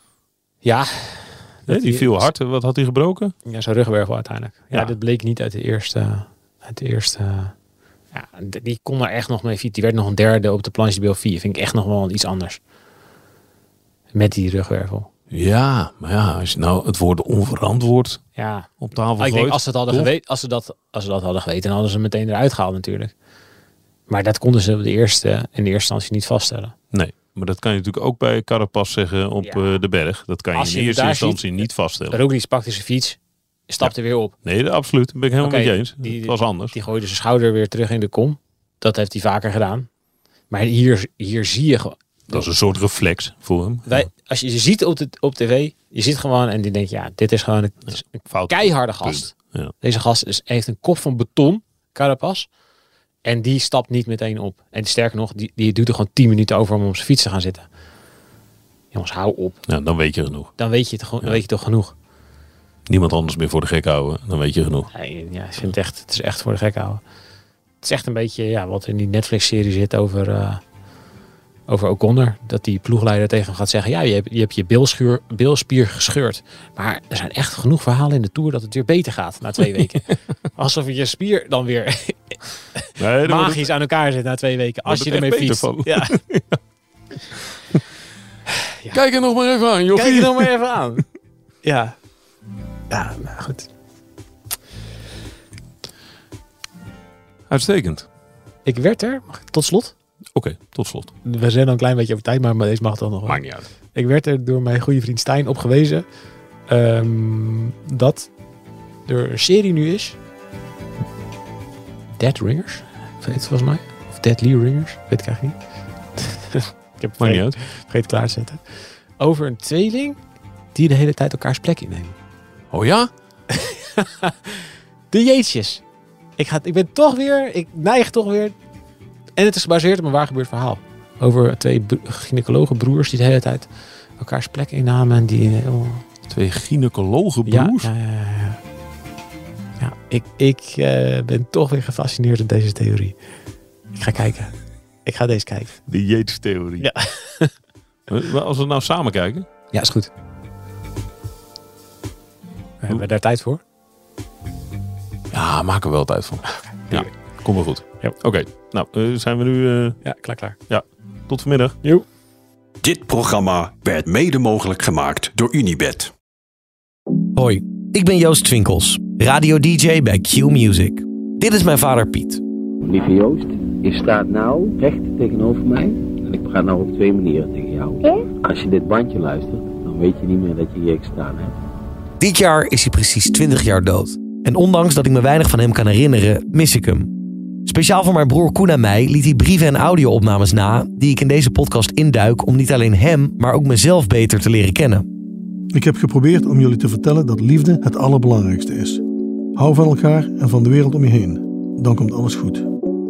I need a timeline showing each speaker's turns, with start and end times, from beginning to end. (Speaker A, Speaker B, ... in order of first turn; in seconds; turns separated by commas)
Speaker A: 0.6-2.3, Speaker B: 1.7-3.3, Speaker A: 3.5-7.5, Speaker A: 8.1-12.6, Speaker A: 14.1-15.1, Speaker B: 15.3-20.1, Speaker A: 18.4-23.1, Speaker A: 24.1-26.8, Speaker B: 26.9-32.2, Speaker A: 29.4-29.7, Speaker A: 30.5-34.3, Speaker B: 34.4-36.8, Speaker A: 35.4-39.9, Speaker A: 40.5-42.5, Speaker B: 42.3-44.1, Speaker A: 43.9-52.5, Speaker B: 48.1-49.7, Speaker A: 53.2-57.7, Speaker A: 58.9-59.6, Speaker B: 59.7-60.6, Speaker A: 60.6-61.9, Speaker B: 62.9-64.9, Speaker A: 64.9-67.0, Speaker A: 67.8-70.6, Speaker A: 71.7-86.2, Speaker B: 83.0-83.7, Speaker B: 84.9-86.6, Speaker B: 88.9-90.5, Speaker A: 89.9-91.1, Speaker A: 91.6-92.0, Speaker A: 92.9-93.7, Speaker B: 97.5-98.1, Speaker A: 98.7-100.0, Speaker B: 100.3-101.1, Speaker A: 101.2-106.1, Speaker B: 103.3-103.7, Speaker A: 106.7-108.3, Speaker A: 109.0-110.2, Speaker A: 112.1-115.6, Speaker A: 116.1-120.2, Speaker B: 117.2-117.6, Speaker A: 120.7-122.2, Speaker B: 122.7-123.1, Speaker A: 123.5-125.8, Speaker A: 126.4-128.6, Speaker A: 129.3-136.1, Speaker B: 136.3-137.9, Speaker A: 137.5-138.6, Speaker A: 139.8-143.2, Speaker A: 143.9-145.8, Speaker B: 145.9-146.9, Speaker A: 146.8-147.6, Speaker B: 148.1-149.5, Speaker A: 149.7-150.1, Speaker A: 152.8-153.6, Speaker B: 155.3-160.0, Speaker A: 156.5-157.2, Speaker A: 160.0-160.6, Speaker B: 160.7-161.8, Speaker C: 162.8-166.1, Speaker D: 167.3-172.4, Speaker E: 172.9-181.5, Speaker D: 182.2-195.1, Speaker F: 195.7-199.0, Speaker F: 199.6-202.7